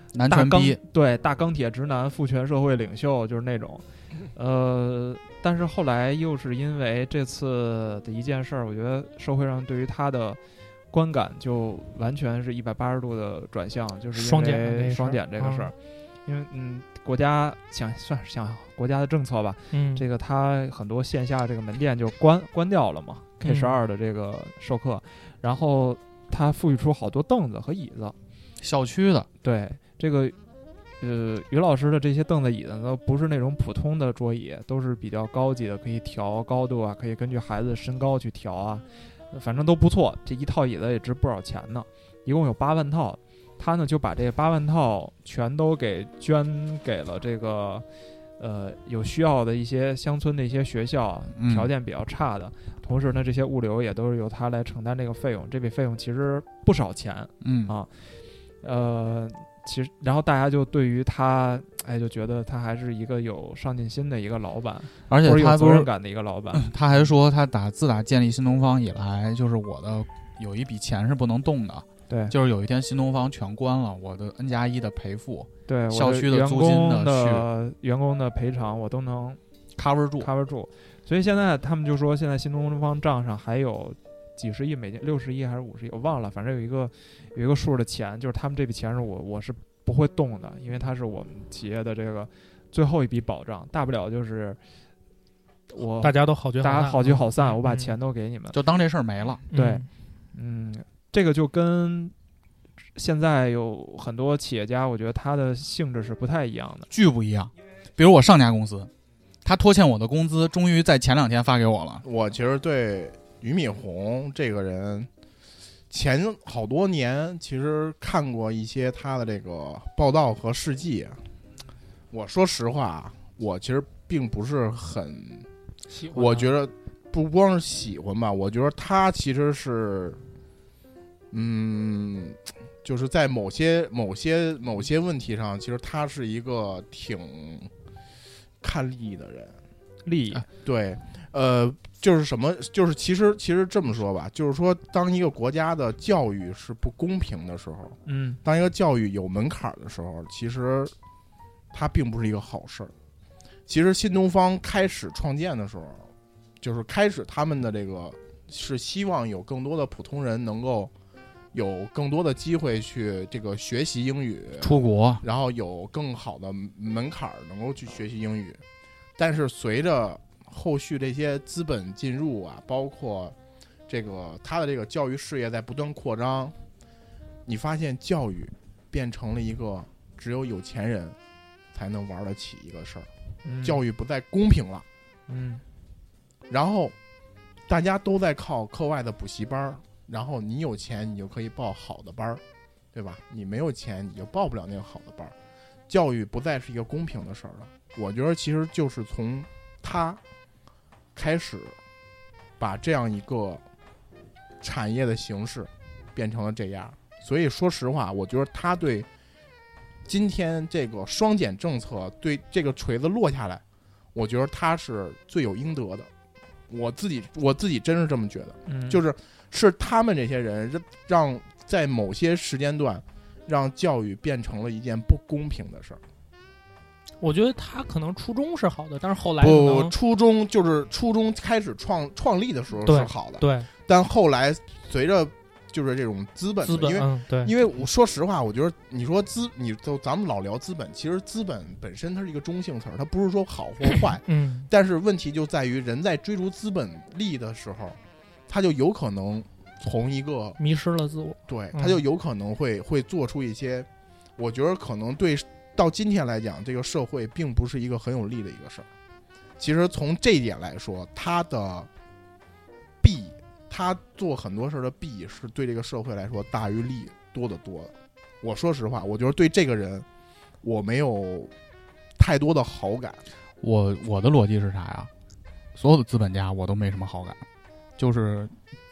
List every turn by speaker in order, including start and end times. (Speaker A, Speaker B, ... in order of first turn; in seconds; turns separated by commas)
Speaker A: 0.1-0.8, Speaker B: 0.3-10.4, Speaker B: 10.9-15.7, Speaker C: 14.1-15.7, Speaker B: 16.2-28.1, Speaker C: 19.7-20.0, Speaker C: 23.4-23.8, Speaker A: 28.6-29.3, Speaker B: 29.4-30.4, Speaker B: 31.0-47.8, Speaker B: 48.4-67.0, Speaker A: 51.4-51.7, Speaker A: 57.4-57.7, Speaker A: 65.1-65.9, Speaker A: 66.5-77.5, Speaker B: 72.1-72.3, Speaker B: 75.7-79.4, Speaker A: 79.8-80.3, Speaker B: 80.2-94.6, Speaker B: 95.7-98.5, Speaker C: 96.0-97.9, Speaker A: 98.5-99.4, Speaker C: 99.5-99.9, Speaker B: 99.5-102.1, Speaker B: 103.0-106.9, Speaker A: 106.9-108.9, Speaker A: 109.4-112.0, Speaker D: 112.0-115.1, Speaker D: 115.9-121.2, Speaker D: 122.1-125.5, Speaker C: 125.9-126.5, Speaker D: 126.1-130.2, Speaker D: 131.3-137.7, Speaker D: 138.6-139.6, Speaker B: 140.0-140.4, Speaker D: 140.6-150.9, Speaker B: 148.1-148.4, Speaker D: 151.7-152.9, Speaker D: 153.7-156.1, Speaker D: 156.6-160.9, Speaker D: 161.5-168.6, Speaker A: 164.6-165.2, Speaker D: 169.2-173.3, Speaker D: 173.9-176.5, Speaker D: 177.4-181.2, Speaker D: 181.7-183.1, Speaker B: 183.4-183.8, Speaker D: 183.6-184.8, Speaker B: 185.3-185.6, Speaker D: 186.5-186.9, Speaker D: 187.7-192.4, Speaker D: 192.9-195.3, Speaker D: 195.9-200.2, Speaker D: 201.1-201.7, Speaker D: 202.6-203.6, Speaker D: 204.6-209.1, Speaker D: 210.1-213.6, Speaker D: 214.1-216.1, Speaker D: 216.7-226.0, Speaker B: 218.7-219.0, Speaker C: 227.2-229.9, Speaker D: 229.4-248.0, Speaker C: 232.8-233.7, Speaker C: 236.6-237.5, Speaker C: 244.2-244.7, Speaker D: 248.5-250.6, Speaker C: 250.6-252.0, Speaker D: 251.5-258.9, Speaker D: 259.6-261.9, Speaker D: 263.0-270.1, Speaker D: 270.6-271.5, Speaker D: 272.2-273.2, Speaker A: 273.6-275.1, Speaker A: 275.7-277.4, Speaker A: 278.0-278.5